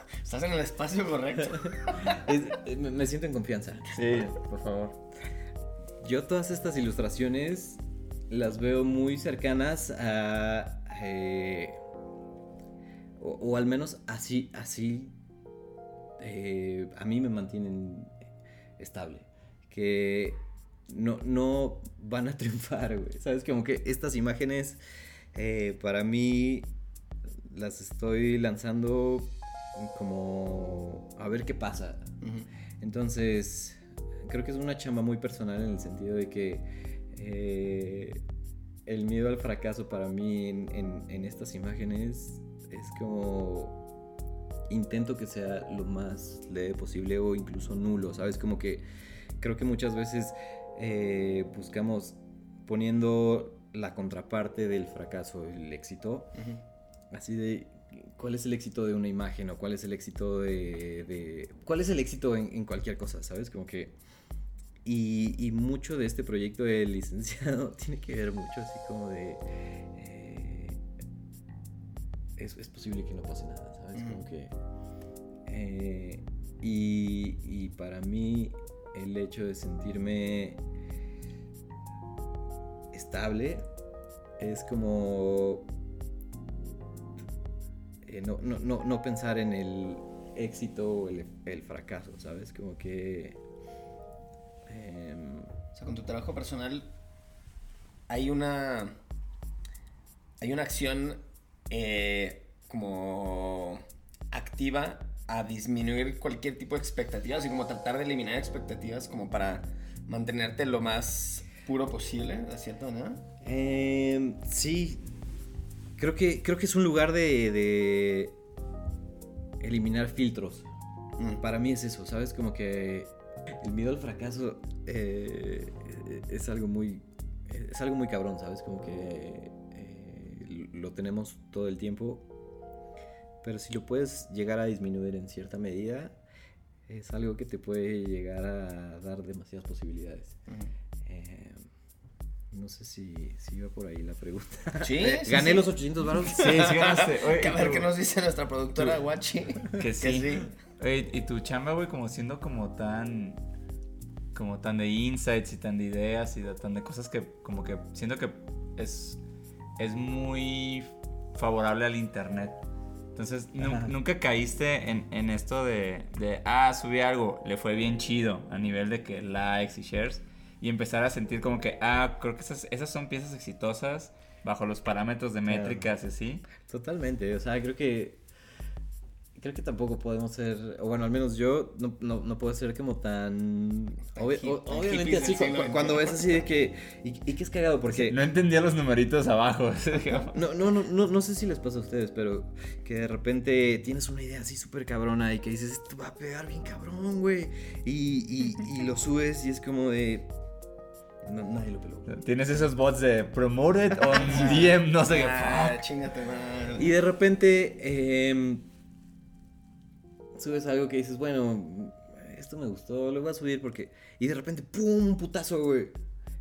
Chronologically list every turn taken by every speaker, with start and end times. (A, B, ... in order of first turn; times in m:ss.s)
0:00.2-0:02.0 A
0:01.9-0:04.0 B
0:03.9-0:05.0 C
0:06.0-0:11.8 B
0:13.2-0:15.1 B
0:16.2-0:18.1 B
0:18.8-0:24.8 B
0:25.3-0:26.7 B
0:27.4-0:32.1 B
0:32.2-0:32.5 A
0:32.8-0:38.2 B
0:38.8-0:43.8 B
0:44.7-0:48.8 B
0:49.4-0:56.4 B
0:57.1-1:04.0 B
1:04.8-1:10.8 B
1:12.4-1:14.5 B
1:13.9-1:14.2 A
1:15.4-1:20.6 B
1:22.9-1:23.7 B
1:24.4-1:25.7 B
1:28.0-1:33.4 B
1:34.7-1:35.5 B
1:35.8-1:36.9 A
1:38.1-1:38.9 A
1:40.4-1:53.2 A
1:53.4-1:55.1 B
1:56.0-1:58.3 B
1:59.6-2:00.7 B
2:01.4-2:12.2 B
2:13.4-2:16.2 B
2:16.9-2:20.4 B
2:21.0-2:21.6 B
2:22.5-2:26.8 B
2:24.8-2:25.7 A
2:26.3-2:27.9 C
2:26.5-2:30.5 A
2:29.8-2:33.4 C
2:34.3-2:39.2 C
2:39.8-2:42.6 C
2:43.1-2:56.4 C
2:43.6-2:43.9 B
2:55.5-2:55.9 B
2:56.6-2:58.2 B
2:59.4-3:08.2 B
3:04.1-3:06.4 A
3:07.9-3:10.3 C
3:10.3-3:20.3 B
3:21.2-3:22.2 B
3:22.1-3:25.8 C
3:24.1-3:26.9 A
3:24.2-3:24.6 B
3:26.8-3:28.6 B
3:30.4-3:35.9 B